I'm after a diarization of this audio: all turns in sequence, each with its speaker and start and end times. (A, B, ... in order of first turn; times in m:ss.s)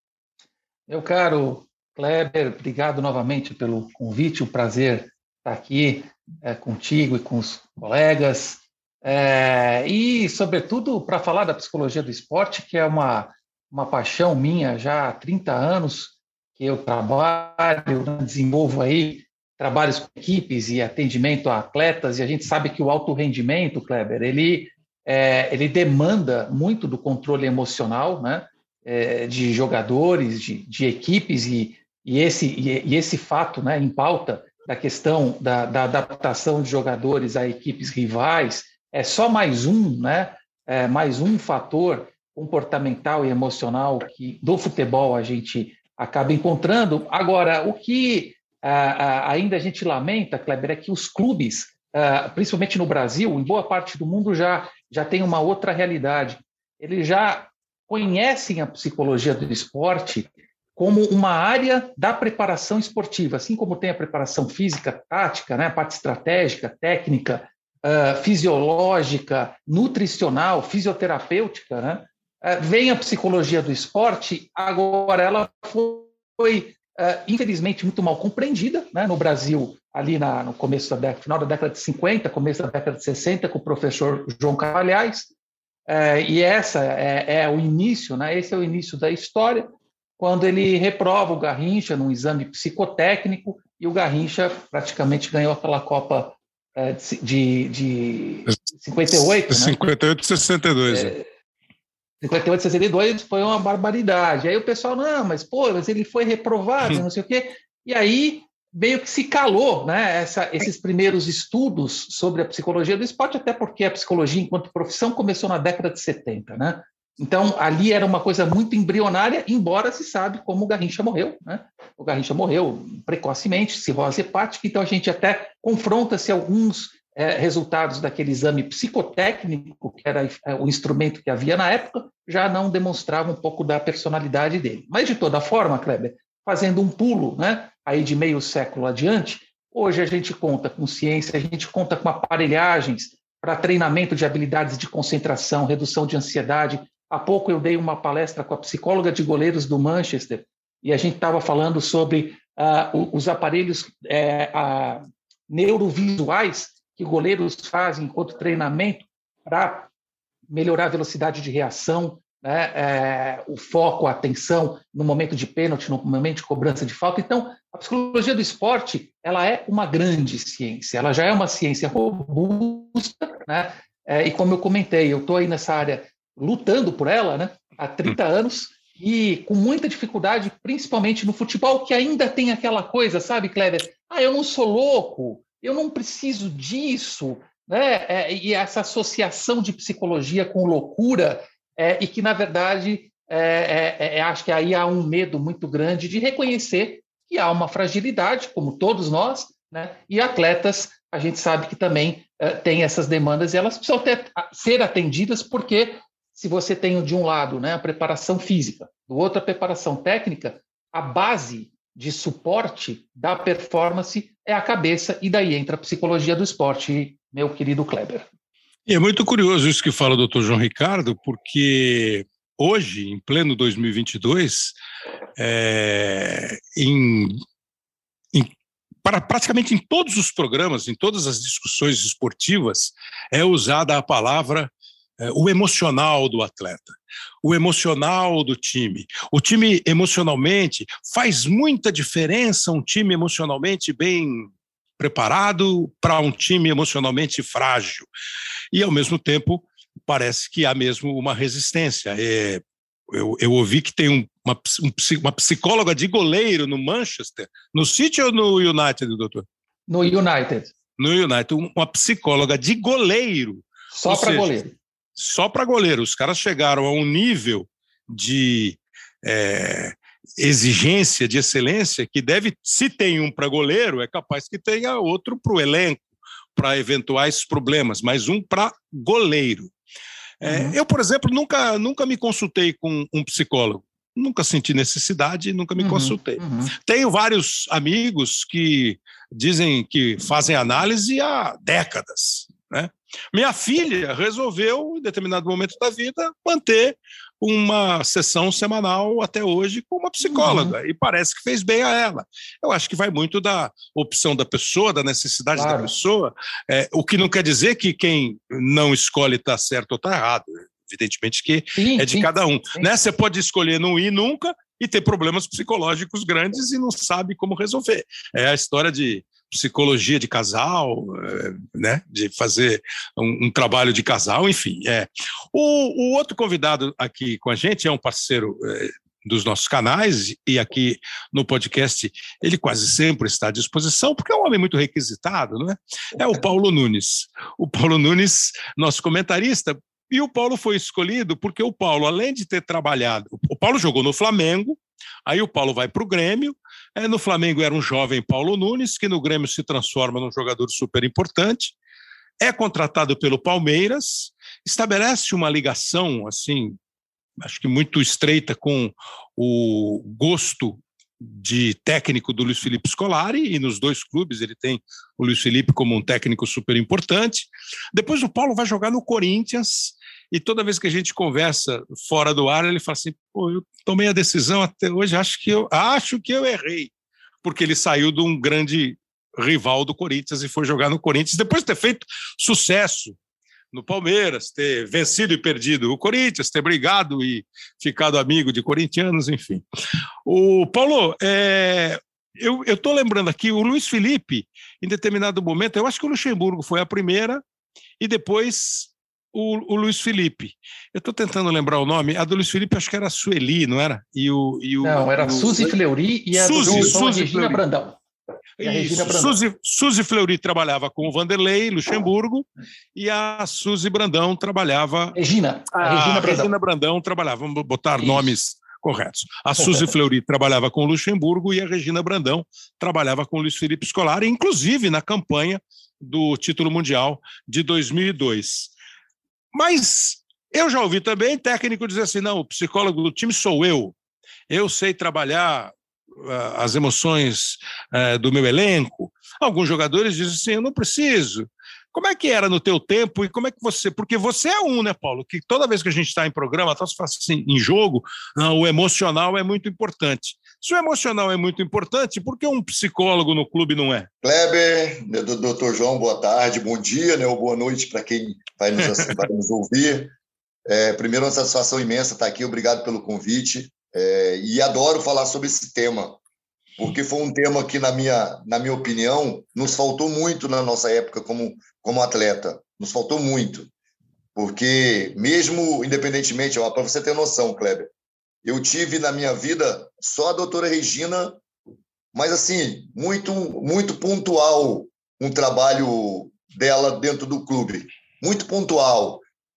0:00.9-1:25.3 A
1:25.9-1:39.9 A
1:39.1-1:41.1 B
1:40.9-1:41.2 A
1:42.2-2:39.9 A
2:40.5-3:38.2 A
3:38.9-3:44.7 B
3:45.4-3:47.4 B
3:49.0-4:08.1 B
4:08.7-4:19.4 B
4:19.9-4:20.7 A
4:21.0-4:24.5 B
4:23.9-4:24.7 A
4:25.2-4:36.0 B
4:36.6-4:39.7 B
4:40.4-5:51.7 B
4:40.4-4:40.8 A
4:45.8-4:46.7 A
5:00.2-5:00.8 A
5:05.6-5:05.9 A
5:11.8-5:12.9 A
5:52.4-5:56.8 B
5:57.4-6:16.9 B
6:17.4-6:23.2 B
6:23.7-6:29.6 B
6:30.2-6:37.4 B
6:38.0-6:45.7 B
6:44.8-6:48.0 A
6:46.3-6:47.6 B
6:46.7-6:46.9 C
6:48.6-6:55.2 B
6:48.6-6:49.4 A
6:55.2-6:56.5 A
6:55.7-7:08.7 B
6:58.0-6:58.3 A
6:59.6-6:59.8 A
7:09.5-7:13.9 B
7:14.5-7:34.1 B
7:34.2-7:40.1 C
7:40.7-7:46.2 C
7:46.8-7:53.7 C
7:54.3-7:57.9 C
7:58.4-8:01.4 C
8:02.1-8:09.2 C